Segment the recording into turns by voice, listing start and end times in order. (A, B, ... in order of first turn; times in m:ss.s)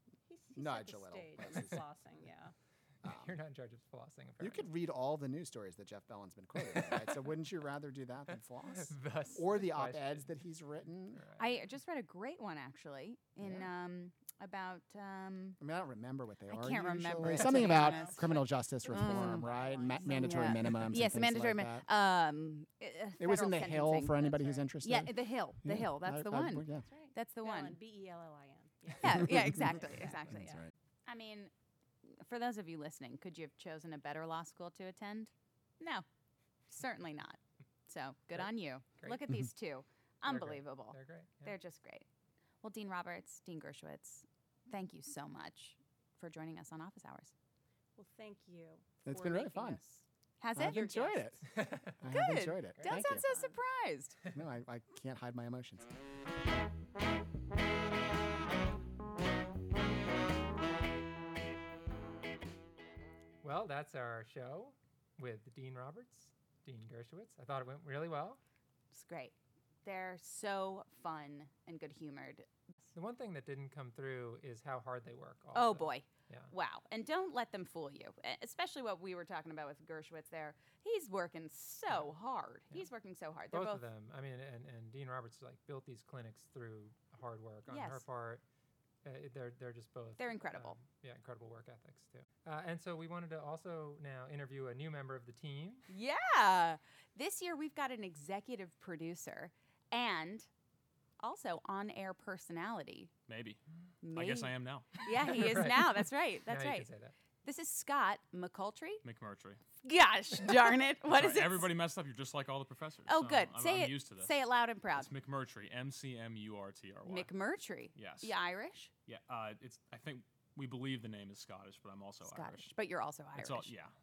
0:00.3-0:02.5 A
0:00.6-0:01.8 B
0:03.0-0:03.4 B
0:03.1-0:04.7 C
0:04.4-0:11.2 B
0:06.6-0:07.0 C
0:08.7-0:10.2 C
0:11.4-0:15.6 D
0:15.6-0:21.9 B
0:16.5-0:18.3 D
0:17.5-0:20.5 A
0:18.9-0:27.8 D
0:23.2-0:25.1 B
0:25.6-0:26.8 B
0:26.8-0:30.6 A
0:29.0-0:31.5 D
0:29.1-0:30.7 B
0:32.0-0:36.1 D
0:36.7-0:42.1 D
0:40.2-0:41.6 C
0:42.6-0:47.3 D
0:48.0-0:50.0 A
0:49.1-0:49.8 B
0:50.4-0:51.2 D
0:50.6-0:51.4 B
0:50.7-0:51.3 A
0:51.6-0:52.0 C
0:52.0-0:53.2 B
0:52.0-0:54.2 D
0:53.2-0:53.5 A
0:54.3-0:55.9 B
1:03.4-1:08.4 C
1:08.9-1:12.5 D
1:13.0-1:16.5 C
1:15.5-1:23.9 D
1:23.5-1:28.4 C
1:27.7-1:28.0 D
1:29.0-1:35.9 C
1:30.2-1:30.8 D
1:35.9-1:40.5 D
1:41.2-1:43.1 D
1:43.3-1:43.6 E
1:44.0-1:46.9 D
1:44.1-1:45.4 E
1:45.3-1:47.1 C
1:47.4-1:49.0 D
1:49.0-1:49.6 E
1:49.8-1:51.7 D
1:51.1-1:54.4 E
1:53.1-1:55.1 D
1:55.0-1:57.3 E
1:57.1-1:58.9 D
1:58.0-1:58.3 E
1:59.1-2:02.7 E
2:02.3-2:03.7 D
2:03.3-2:03.9 E